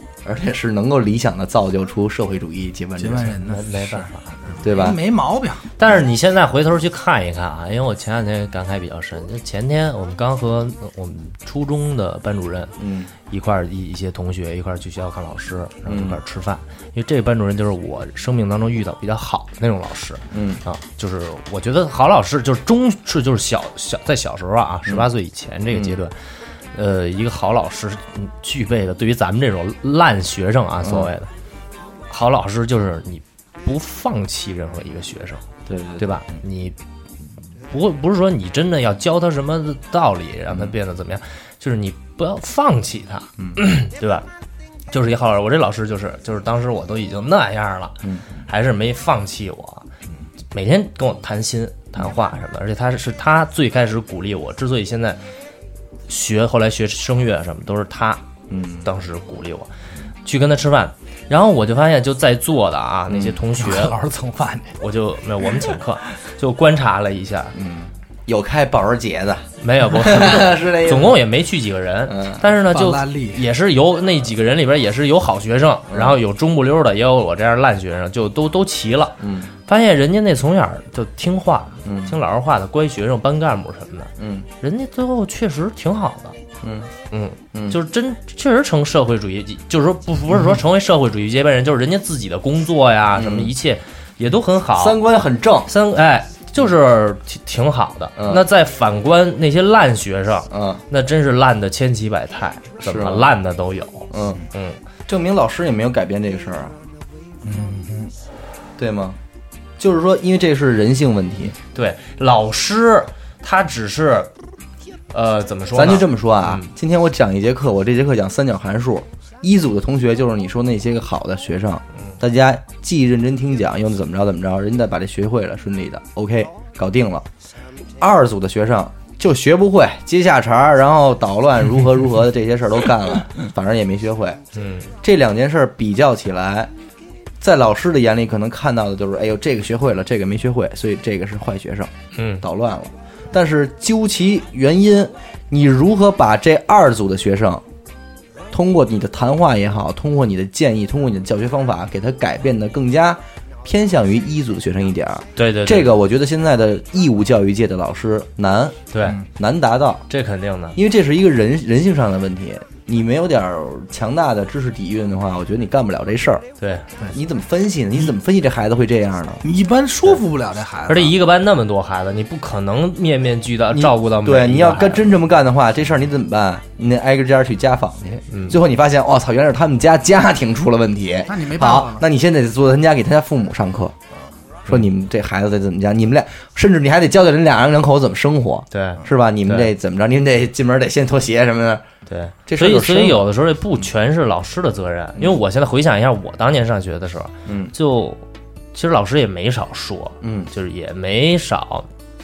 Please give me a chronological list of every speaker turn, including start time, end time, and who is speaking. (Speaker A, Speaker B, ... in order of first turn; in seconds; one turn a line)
Speaker A: 0.2-3.4
Speaker B: 3.0-5.7
Speaker C: 3.4-4.6
Speaker A: 4.6-5.0
Speaker C: 5.8-12.7
Speaker A: 12.8-13.1
Speaker C: 13.3-26.1
Speaker A: 15.8-16.2
Speaker A: 20.3-20.6
Speaker A: 25.7-26.0
Speaker C: 26.7-31.3
Speaker A: 30.8-31.1
Speaker C: 32.1-35.4
Speaker A: 35.7-36.2
Speaker C: 36.0-36.8
Speaker C: 37.7-44.2
Speaker C: 44.9-49.8
Speaker C: 50.5-55.2
Speaker C: 56.1-58.2
Speaker A: 58.5-58.9
Speaker C: 58.8-59.7
Speaker C: 60.2-64.0
Speaker A: 63.1-63.4
Speaker B: 63.6-64.7
Speaker C: 64.8-67.5
Speaker A: 67.5-71.2
Speaker C: 69.6-86.4
Speaker A: 72.1-72.4
Speaker B: 72.7-73.4
Speaker A: 79.2-79.5
Speaker A: 81.8-82.2
Speaker A: 84.2-84.5
Speaker A: 86.6-86.9
Speaker C: 87.1-95.0
Speaker A: 87.5-87.8
Speaker A: 93.1-93.5
Speaker A: 94.7-95.7
Speaker C: 95.7-104.8
Speaker A: 98.2-98.4
Speaker A: 100.5-100.8
Speaker A: 102.8-103.3
Speaker A: 104.1-104.4
Speaker A: 105.1-106.8
Speaker B: 107.4-108.1
Speaker A: 108.8-109.2
Speaker A: 109.8-111.6
Speaker C: 111.7-114.3
Speaker C: 115.1-116.7
Speaker A: 115.7-127.2
Speaker A: 128.0-134.4
Speaker C: 134.5-134.9
Speaker A: 135.0-136.7
Speaker A: 137.4-147.6
Speaker C: 142.1-142.4
Speaker A: 148.5-160.1
Speaker C: 155.4-155.9
Speaker C: 158.9-159.2
Speaker C: 160.1-160.8
Speaker A: 160.8-166.4
Speaker C: 166.6-166.8
Speaker A: 167.1-169.4
Speaker B: 169.4-171.1
Speaker C: 170.9-175.1
Speaker A: 173.7-183.9
Speaker C: 178.3-178.6
Speaker B: 181.3-182.0
Speaker A: 184.7-191.8
Speaker C: 188.7-189.7
Speaker C: 192.1-198.2
Speaker A: 192.5-193.3
Speaker A: 197.4-197.7
Speaker C: 198.7-201.9
Speaker A: 200.2-200.5